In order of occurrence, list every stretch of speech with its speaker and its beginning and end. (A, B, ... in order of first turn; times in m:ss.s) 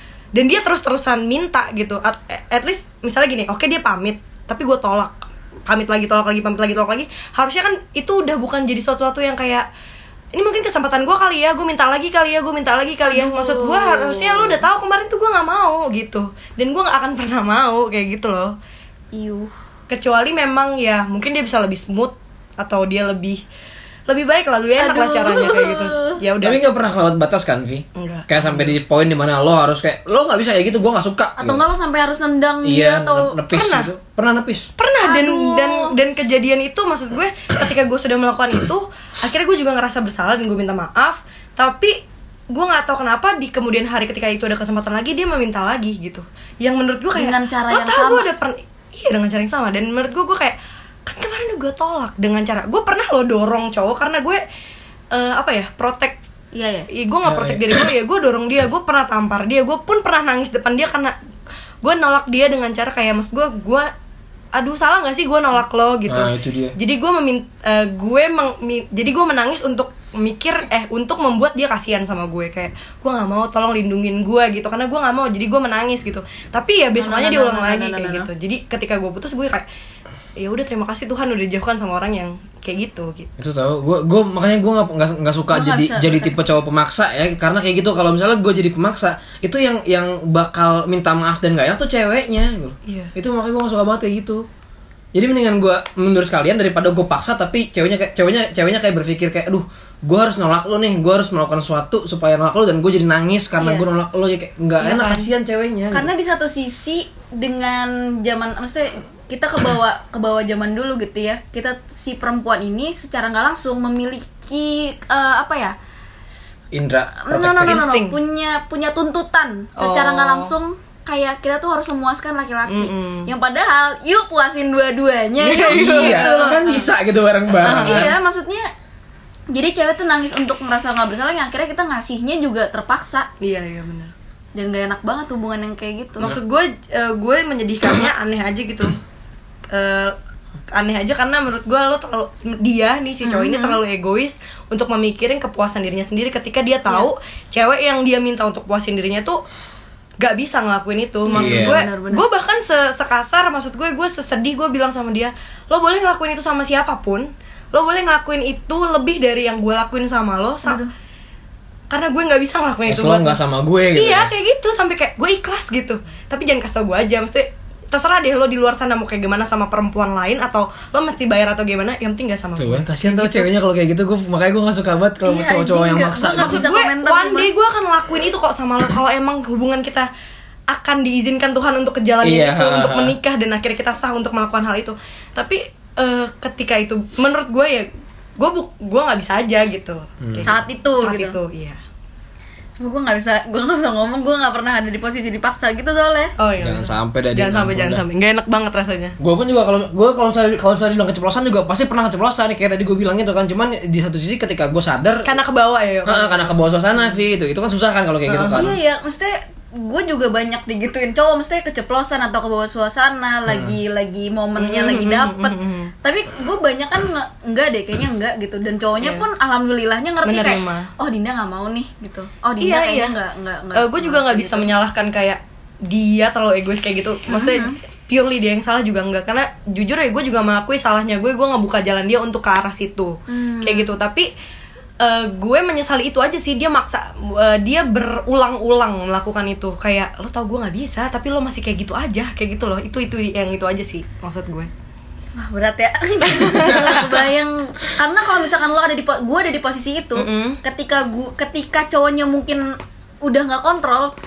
0:00.4-0:09.7 A
0:10.3-0:18.6 A
0:13.0-0:14.6 B
0:19.1-0:19.5 B
0:19.9-0:23.4 A
0:24.1-0:26.6 A
0:24.8-0:26.2 B
0:26.4-0:31.6 C
0:28.0-0:28.7 A
0:31.4-0:33.4 B
0:32.6-0:34.7 C
0:33.5-0:33.9 A
0:34.8-0:42.0 A
0:35.0-0:35.9 B
0:42.5-0:54.4 A
0:47.2-0:48.3 B
0:55.1-0:56.2 A
0:56.5-0:56.9 B
0:56.9-1:01.2 A
0:57.2-0:57.8 C
1:01.8-1:03.9 A
1:04.5-1:19.7 A
1:06.1-1:06.8 C
1:17.0-1:18.3 B
1:20.4-1:23.3 A
1:23.4-1:34.5 C
1:25.5-1:26.4 B
1:32.9-1:33.1 A
1:35.1-1:46.1 C
1:43.6-1:43.9 B
1:44.8-1:45.3 A
1:45.9-1:55.8 B
1:56.7-1:57.8 C
1:57.2-2:06.8 B
1:57.6-1:58.2 A
1:59.8-2:00.5 A
2:02.7-2:03.3 A
2:05.4-2:08.1 C
2:05.5-2:06.9 A
2:07.6-2:08.1 A
2:07.8-2:08.7 B
2:09.5-2:13.3 B
2:13.4-2:14.1 A
2:14.6-2:16.3 B
2:16.2-2:19.0 A
2:19.7-2:20.2 A
2:20.7-2:29.4 A
2:23.2-2:23.8 B
2:30.2-2:40.8 A
2:31.3-2:32.2 B
2:31.3-2:31.8 C
2:40.6-2:40.9 B
2:41.9-2:43.4 A
2:42.9-2:44.3 C
2:44.0-2:53.5 A
2:52.6-2:56.7 C
2:55.2-2:57.5 B
2:56.3-3:00.1 A
3:00.7-3:11.8 A
3:02.2-3:03.2 C
3:10.2-3:10.5 C
3:10.4-3:11.4 B
3:12.8-3:16.3 B
3:16.4-3:19.2 A
3:16.6-3:18.0 C
3:19.2-3:25.3 C
3:25.2-3:26.4 A
3:26.1-3:28.8 C
3:28.3-3:28.7 A
3:28.6-3:44.7 B
3:33.5-3:33.8 C
3:34.6-3:35.9 A
3:40.2-3:40.9 A
3:42.6-3:43.1 A
3:43.8-3:54.3 A
3:47.3-3:47.8 B
3:53.3-3:53.9 B
3:55.0-4:04.7 A
4:05.4-4:14.1 B
4:06.3-4:07.2 A
4:10.2-4:10.6 A